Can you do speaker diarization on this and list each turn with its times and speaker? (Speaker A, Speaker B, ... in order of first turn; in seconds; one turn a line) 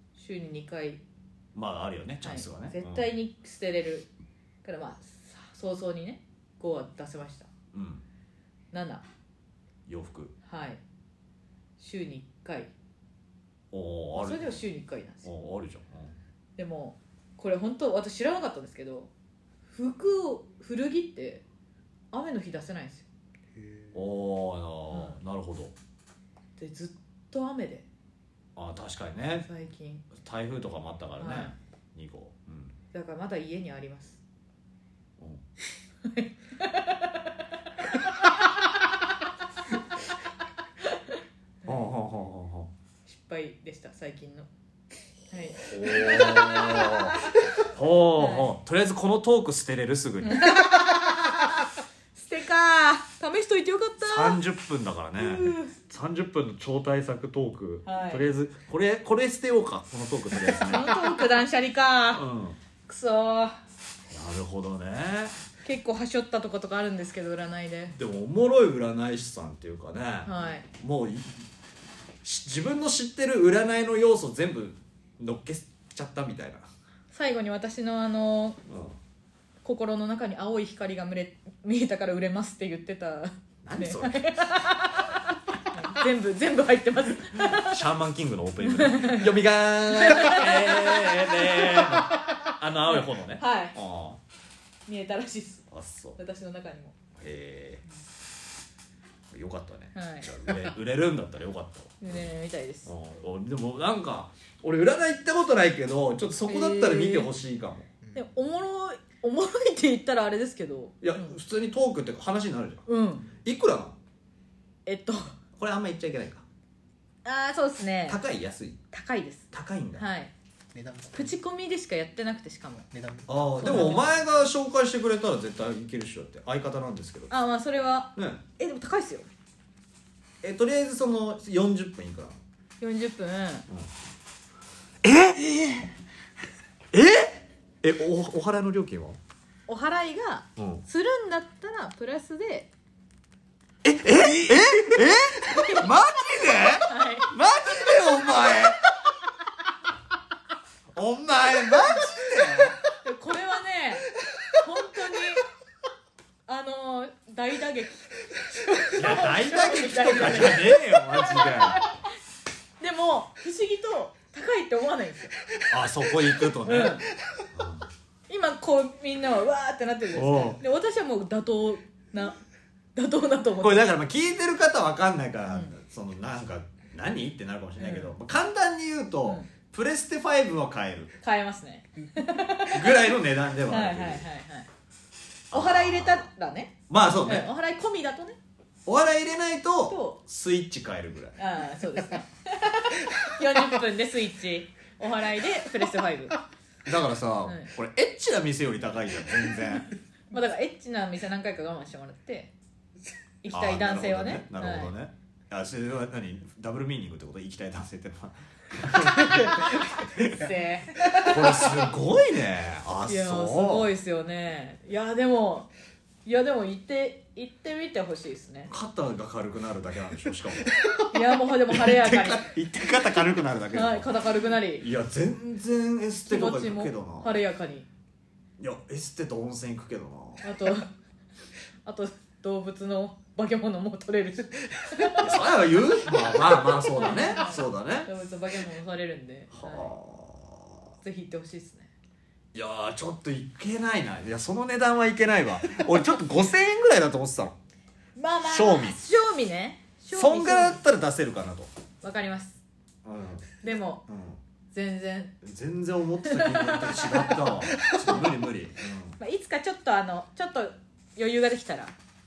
Speaker A: 0.1-1.0
Speaker B: 1.5-3.0
Speaker A: 2.2-4.1
Speaker A: 4.6-7.5
Speaker B: 7.7-8.0
Speaker A: 8.7-9.0
Speaker B: 9.9-10.3
Speaker A: 10.4-10.8
Speaker A: 11.8-12.7
Speaker B: 13.7-14.6
Speaker A: 14.1-15.3
Speaker B: 15.2-16.1
Speaker A: 16.6-19.1
Speaker A: 19.7-21.4
Speaker A: 22.1-23.1
Speaker C: 23.6-23.9
Speaker B: 23.9-25.7
Speaker A: 24.9-25.2
Speaker A: 26.6-27.9
Speaker B: 28.6-29.5
Speaker A: 29.4-30.1
Speaker B: 30.1-32.7
Speaker A: 31.2-31.5
Speaker A: 32.9-34.2
Speaker A: 36.0-38.4
Speaker A: 40.8-41.9
Speaker B: 41.6-42.7
Speaker A: 43.0-44.5
Speaker A: 45.3-48.5
Speaker B: 45.6-50.6
Speaker A: 50.2-54.4
Speaker B: 54.0-61.1
Speaker A: 55.2-55.8
Speaker A: 57.8-58.2
Speaker A: 60.4-62.2
Speaker B: 62.1-62.6
Speaker A: 62.9-63.6
Speaker B: 64.1-65.4
Speaker A: 65.6-68.0
Speaker B: 67.9-71.5
Speaker A: 70.2-70.7
Speaker B: 72.2-76.7
Speaker A: 77.1-78.6
Speaker B: 78.7-79.0
Speaker A: 79.6-87.8
Speaker B: 83.6-84.6
Speaker B: 87.3-94.2
Speaker A: 88.6-89.4
Speaker A: 89.9-93.8
Speaker A: 94.9-97.0
Speaker B: 95.7-96.2
Speaker B: 97.2-97.8
Speaker B: 99.3-102.2
Speaker A: 99.9-100.4
Speaker A: 102.0-102.9
Speaker B: 102.8-107.9
Speaker A: 106.4-107.3
Speaker A: 108.1-111.4
Speaker B: 111.0-112.8
Speaker A: 112.9-113.3
Speaker B: 113.4-114.0
Speaker A: 114.8-115.3
Speaker B: 115.6-116.4
Speaker A: 117.2-118.2
Speaker B: 118.1-118.8
Speaker A: 118.9-120.3
Speaker B: 119.5-120.0
Speaker C: 120.7-121.3
Speaker A: 121.1-122.8
Speaker C: 122.9-123.9
Speaker B: 123.3-127.3
Speaker A: 123.6-124.1
Speaker A: 127.3-129.3
Speaker B: 128.2-128.4
Speaker B: 130.4-132.4
Speaker A: 132.8-133.7
Speaker B: 135.0-135.9
Speaker B: 136.9-139.2
Speaker A: 139.7-142.7
Speaker B: 140.6-140.8
Speaker B: 143.8-148.8
Speaker A: 145.4-145.9
Speaker A: 146.8-147.3
Speaker B: 150.9-152.8
Speaker A: 153.0-155.4
Speaker A: 156.4-162.1
Speaker B: 158.9-161.8
Speaker A: 162.8-165.3
Speaker B: 165.7-167.8
Speaker A: 166.6-167.1
Speaker A: 168.3-172.4
Speaker B: 170.1-170.6
Speaker A: 172.9-173.9
Speaker B: 173.6-181.1
Speaker A: 175.5-175.8
Speaker A: 177.8-178.1
Speaker A: 181.2-184.7
Speaker B: 182.7-184.2
Speaker B: 185.5-186.3
Speaker A: 185.5-188.4
Speaker B: 186.9-187.5
Speaker B: 188.8-191.4
Speaker A: 189.9-190.2
Speaker A: 191.4-196.4
Speaker B: 196.8-199.9
Speaker A: 197.4-197.7
Speaker A: 200.3-202.5
Speaker A: 203.4-204.9
Speaker B: 203.5-210.4
Speaker A: 210.2-211.8
Speaker B: 211.1-213.9
Speaker A: 213.1-215.7
Speaker A: 216.2-218.7
Speaker B: 218.7-221.0
Speaker A: 221.1-222.5
Speaker B: 221.7-224.1
Speaker A: 223.7-224.9
Speaker B: 224.8-227.3
Speaker A: 226.2-227.9
Speaker B: 228.6-230.6
Speaker A: 230.4-230.9
Speaker A: 231.8-235.4
Speaker B: 235.2-238.1
Speaker A: 236.2-239.9
Speaker B: 239.5-240.9
Speaker A: 241.0-241.9
Speaker B: 242.5-247.5
Speaker A: 248.2-250.8
Speaker B: 248.4-249.0
Speaker B: 250.1-251.7
Speaker A: 252.0-252.6
Speaker B: 253.0-253.5
Speaker A: 253.6-254.0
Speaker B: 254.1-254.4
Speaker A: 254.7-255.4
Speaker B: 255.4-259.2
Speaker A: 256.2-258.2
Speaker A: 259.2-261.9